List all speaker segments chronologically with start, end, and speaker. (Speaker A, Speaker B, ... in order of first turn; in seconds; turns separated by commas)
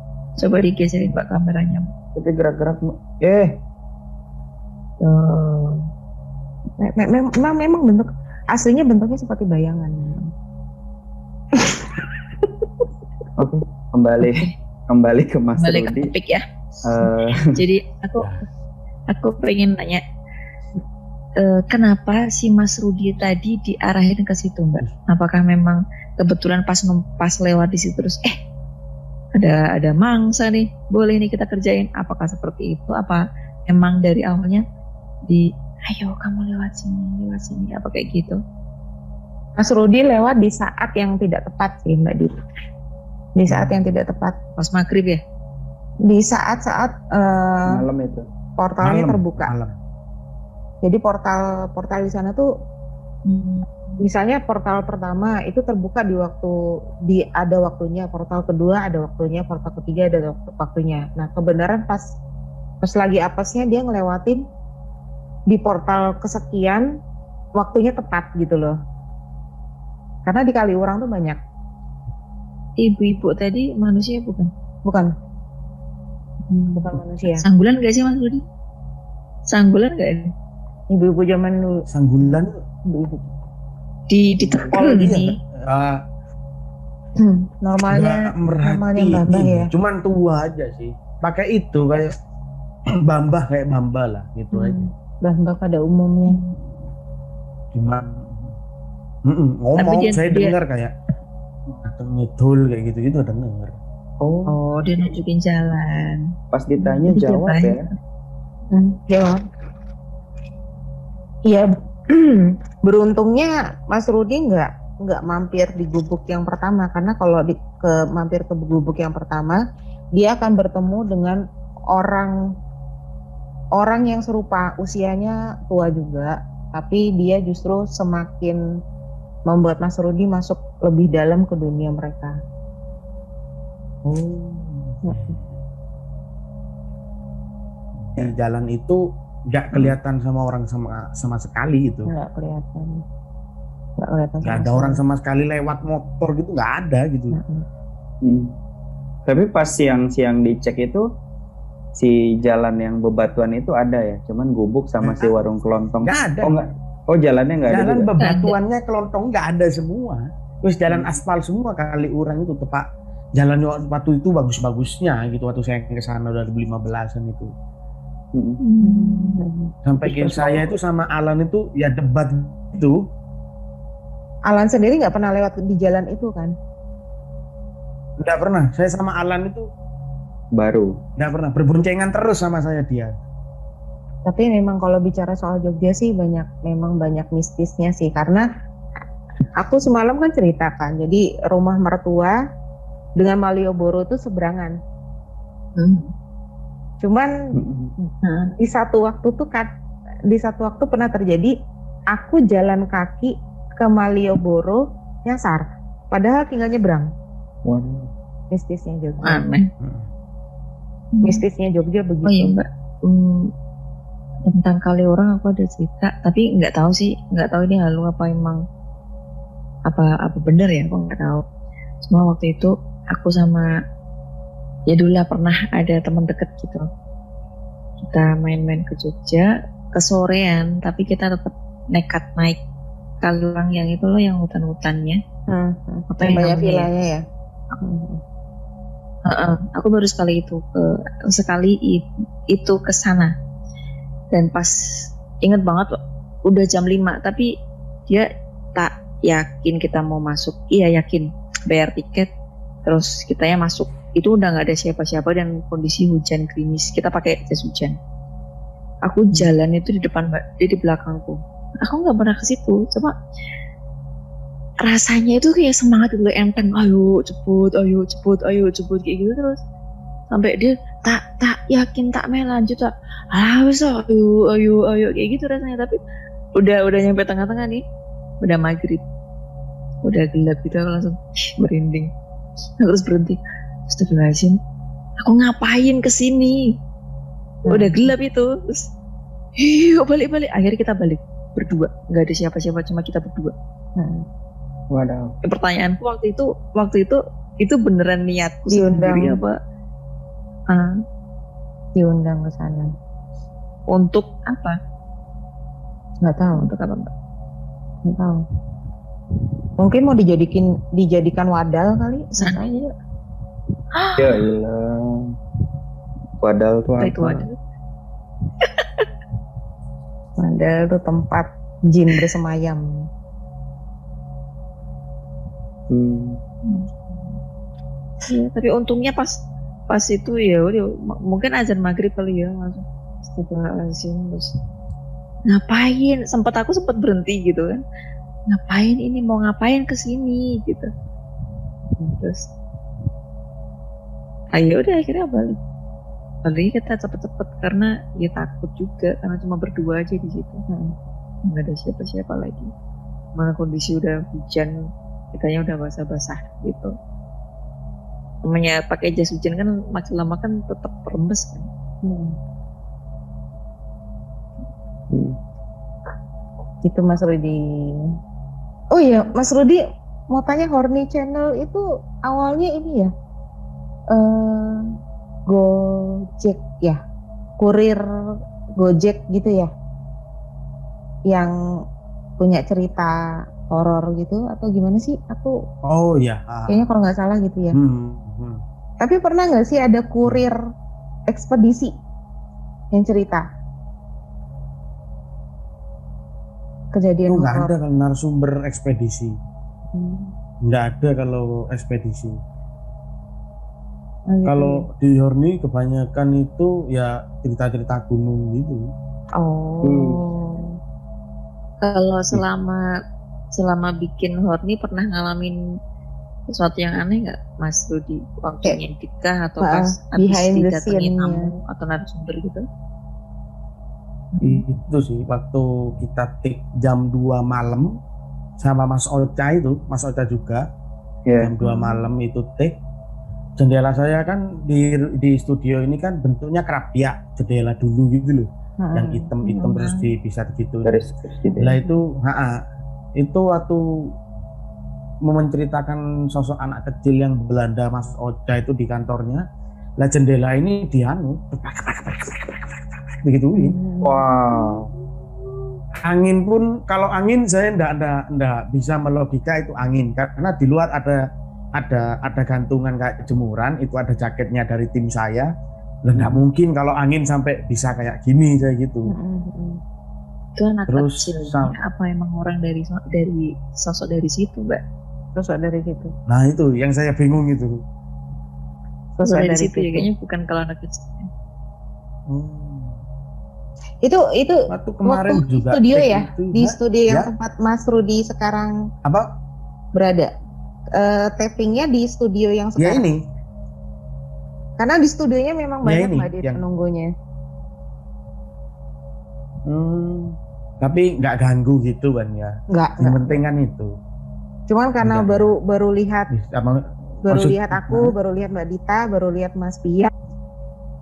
Speaker A: 0.4-1.9, Speaker B: 2.1-3.6, Speaker A: 5.0-5.9, Speaker C: 6.8-10.3, Speaker C: 11.6-11.9, Speaker B: 13.4-16.1, Speaker A: 14.2-14.5, Speaker A: 15.6-16.4, Speaker B: 16.8-17.5, Speaker A: 17.0-18.3, Speaker A: 19.1-20.0, Speaker A: 21.4-28.4, Speaker A: 29.4-34.6, Speaker A: 35.3-38.4, Speaker C: 39.6-42.4, Speaker C: 43.4-44.4, Speaker A: 44.6-45.2, Speaker C: 46.1-47.9, Speaker B: 47.6-48.3, Speaker C: 48.6-49.5, Speaker D: 48.8-49.7, Speaker C: 50.8-52.5, Speaker A: 53.2-54.0, Speaker C: 54.0-56.5, Speaker C: 57.0-62.0, Speaker C: 62.8-64.4, Speaker C: 65.5-66.9, Speaker C: 67.6-68.7, Speaker C: 70.2-71.4, Speaker A: 72.8-74.5, Speaker C: 74.9-75.1, Speaker A: 76.5-78.4, Speaker C: 76.8-77.4, Speaker A: 79.5-80.3, Speaker C: 80.9-81.8, Speaker D: 81.9-82.6, Speaker C: 82.4-83.3, Speaker A: 84.1-85.3, Speaker D: 84.5-86.0, Speaker C: 87.2-89.7, Speaker D: 87.9-92.1, Speaker D: 93.0-94.9, Speaker C: 94.5-96.4, Speaker A: 96.3-96.6, Speaker D: 97.7-98.5, Speaker D: 99.2-100.9, Speaker A: 99.8-100.5, Speaker D: 101.7-103.7, Speaker B: 104.2-104.6, Speaker A: 104.5-106.3, Speaker B: 106.5-107.8, Speaker A: 106.8-107.9, Speaker C: 108.7-109.4, Speaker C: 111.5-119.6, Speaker C: 120.2-122.4, Speaker C: 123.8-128.6, Speaker C: 129.5-132.3, Speaker D: 134.1-135.6, Speaker D: 138.0-139.0, Speaker D: 139.5-142.1, Speaker C: 142.1-143.0, Speaker C: 144.0-145.0, Speaker D: 144.4-147.4, Speaker C: 147.3-147.6, Speaker B: 148.2-148.5, Speaker B: 149.2-151.0, Speaker B: 151.9-158.1, Speaker D: 155.0-155.3, Speaker D: 156.0-156.6, Speaker D: 157.7-167.5, Speaker A: 158.2-158.6, Speaker B: 160.9-161.2, Speaker B: 168.3-168.6, Speaker A: 168.6-169.4, Speaker C: 168.8-170.4, Speaker D: 169.8-173.0, Speaker B: 170.2-170.7, Speaker C: 174.5-176.5, Speaker D: 178.2-179.7, Speaker B: 180.5-180.9, Speaker D: 181.2-183.1, Speaker C: 184.2-188.4, Speaker C: 189.6-192.4, Speaker C: 193.2-194.8, Speaker A: 195.8-196.1, Speaker C: 197.0-197.3, Speaker B: 197.5-197.9, Speaker C: 198.1-199.7, Speaker A: 198.2-198.5, Speaker C: 200.3-201.5, Speaker C: 202.1-207.1, Speaker B: 207.6-208.1, Speaker C: 208.5-209.4, Speaker A: 209.2-209.7, Speaker D: 209.8-210.1, Speaker A: 211.1-211.4, Speaker C: 211.2-212.6, Speaker A: 212.2-213.5, Speaker A: 214.5-218.6, Speaker A: 219.9-221.4, Speaker A: 222.0-223.7, Speaker A: 224.9-226.8, Speaker A: 228.1-232.6, Speaker A: 233.2-235.2, Speaker C: 235.5-237.2, Speaker A: 236.1-236.9, Speaker C: 237.8-238.2, Speaker A: 239.2-243.3, Speaker A: 244.3-247.5, Speaker A: 248.1-252.3, Speaker A: 252.9-258.0, Speaker A: 259.1-263.1, Speaker A: 264.9-269.6, Speaker A: 270.3-276.0, Speaker A: 276.6-277.8, Speaker A: 278.4-279.0, Speaker A: 280.0-282.1, Speaker A: 282.8-284.6, Speaker A: 285.2-286.6, Speaker C: 287.7-288.1, Speaker A: 287.7-288.9, Speaker A: 289.6-293.5, Speaker C: 294.0-294.2, Speaker B: 294.9-295.4, Speaker A: 295.4-299.6, Speaker C: 298.7-299.4, Speaker C: 301.9-302.9, Speaker A: 303.9-304.8, Speaker C: 306.2-306.7, Speaker A: 306.6-307.1, Speaker C: 308.1-308.4, Speaker C: 309.8-312.7, Speaker A: 312.4-312.8, Speaker A: 313.9-314.4, Speaker B: 314.2-315.3, Speaker B: 316.4-317.5, Speaker A: 317.0-317.6, Speaker A: 318.6-319.0, Speaker C: 320.4-322.8, Speaker B: 325.9-326.4, Speaker A: 326.6-327.4, Speaker A: 328.3-334.5, Speaker A: 335.5-337.8, Speaker A: 338.5-340.9, Speaker A: 342.2-342.5, Speaker A: 344.6-345.6, Speaker A: 346.4-350.6, Speaker A: 351.5-352.7, Speaker A: 353.4-354.7, Speaker A: 355.3-356.9, Speaker A: 358.5-361.7, Speaker C: 362.0-362.4, Speaker B: 365.1-365.4, Speaker C: 366.8-367.6, Speaker C: 368.9-373.1, Speaker C: 374.1-374.9, Speaker C: 375.5-377.0, Speaker C: 377.6-378.0, Speaker C: 378.8-379.7, Speaker C: 382.4-383.1, Speaker C: 383.7-385.5, Speaker D: 385.9-386.9, Speaker C: 386.7-387.8, Speaker D: 387.7-388.6, Speaker C: 389.0-390.6, Speaker C: 391.3-391.9, Speaker C: 392.9-393.4, Speaker C: 396.9-397.7, Speaker D: 397.3-399.4, Speaker C: 399.9-400.3, Speaker D: 400.6-402.4, Speaker C: 404.3-404.8, Speaker D: 404.4-408.9, Speaker C: 409.4-410.7, Speaker B: 409.8-410.2, Speaker A: 411.8-412.8, Speaker A: 413.5-415.6, Speaker A: 416.5-422.6, Speaker C: 419.6-421.5, Speaker A: 424.3-424.6, Speaker D: 424.4-427.9, Speaker D: 428.6-430.6, Speaker B: 431.3-431.5, Speaker D: 431.4-432.8, Speaker C: 431.6-431.9, Speaker D: 433.6-441.0, Speaker C: 438.8-439.3, Speaker A: 439.4-440.1, Speaker B: 440.9-441.7, Speaker D: 441.6-442.5, Speaker D: 443.2-443.8, Speaker D: 445.2-449.4, Speaker D: 450.0-453.8, Speaker C: 453.5-454.2, Speaker B: 454.0-454.9, Speaker D: 456.0-461.2, Speaker D: 461.8-465.5, Speaker D: 466.1-469.1, Speaker B: 466.1-466.4, Speaker C: 469.1-469.8, Speaker A: 470.6-474.8, Speaker D: 470.9-471.7, Speaker C: 475.4-476.1, Speaker D: 476.3-477.8, Speaker C: 479.2-480.1, Speaker A: 479.2-481.3, Speaker D: 482.3-483.0, Speaker C: 484.0-488.7, Speaker D: 484.7-487.3, Speaker C: 489.9-490.3, Speaker C: 490.9-493.0, Speaker D: 492.8-493.2, Speaker C: 494.8-497.1, Speaker D: 495.9-496.6, Speaker D: 499.7-503.9, Speaker C: 502.7-503.4, Speaker C: 504.7-506.3, Speaker D: 505.0-505.5, Speaker D: 506.3-508.1, Speaker C: 507.2-510.1